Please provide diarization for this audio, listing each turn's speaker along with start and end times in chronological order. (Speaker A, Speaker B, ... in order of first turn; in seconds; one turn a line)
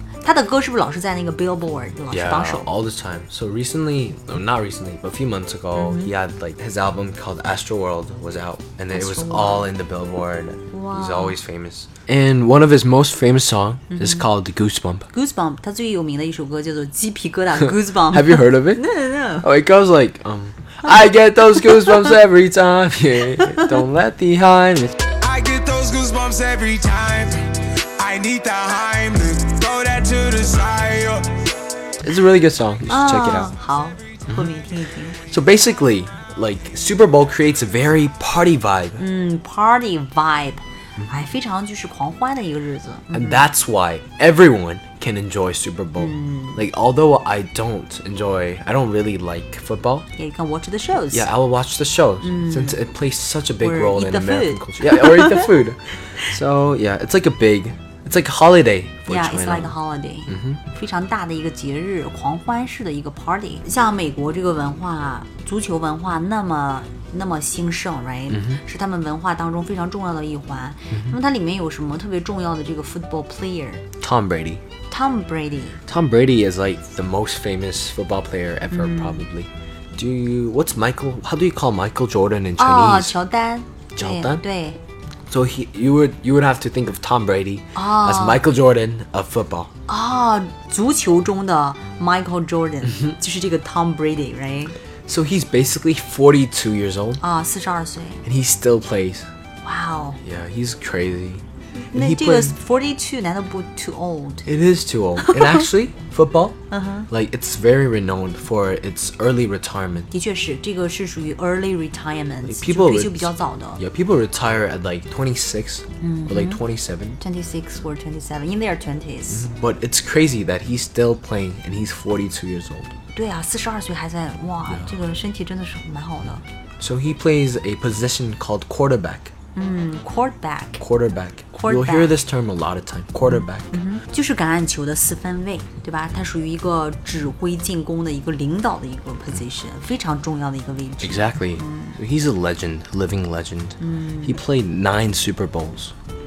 Speaker A: 0.2-2.7
Speaker B: 2.1-15.1
Speaker A: 5.7-6.1
Speaker A: 8.9-9.7
Speaker A: 10.7-11.4
Speaker A: 13.9-14.3
Speaker A: 15.1-19.5
Speaker B: 17.6-18.8
Speaker B: 19.4-25.1
Speaker C: 25.1-31.5
Speaker B: 32.0-33.5
Speaker A: 32.9-35.2
Speaker B: 35.2-39.0
Speaker A: 39.0-43.5
Speaker B: 43.1-50.1
Speaker A: 46.0-46.6
Speaker A: 50.1-51.3
Speaker B: 51.0-59.8
Speaker A: 52.2-52.8
Speaker A: 53.6-55.5
Speaker A: 59.1-73.8
Speaker B: 60.3-60.6
Speaker B: 68.3-68.6
Speaker B: 70.9-71.2
Speaker B: 74.0-74.6
Speaker A: 74.9-75.8
Speaker B: 75.8-83.2
Speaker A: 78.7-79.2
Speaker A: 82.6-84.8
Speaker B: 84.0-84.4
Speaker B: 85.3-89.7
Speaker A: 87.8-88.4
Speaker A: 89.9-94.8
Speaker B: 95.0-97.2
Speaker A: 97.2-98.2
Speaker B: 98.2-99.3
Speaker A: 99.6-100.2
Speaker B: 100.2-102.6
Speaker A: 101.8-104.5
Speaker B: 104.5-106.6
Speaker A: 105.2-105.6
Speaker A: 106.7-107.1
Speaker B: 107.1-110.1
Speaker A: 110.1-113.8
Speaker B: 112.4-117.2
Speaker A: 116.0-116.6
Speaker A: 117.2-119.5
Speaker B: 119.3-122.9
Speaker A: 123.1-126.4
Speaker B: 126.8-129.3
Speaker A: 129.5-130.8
Speaker B: 130.8-133.8
Speaker A: 131.5-132.1
Speaker A: 133.3-141.9
Speaker B: 141.0-145.9
Speaker A: 143.8-144.4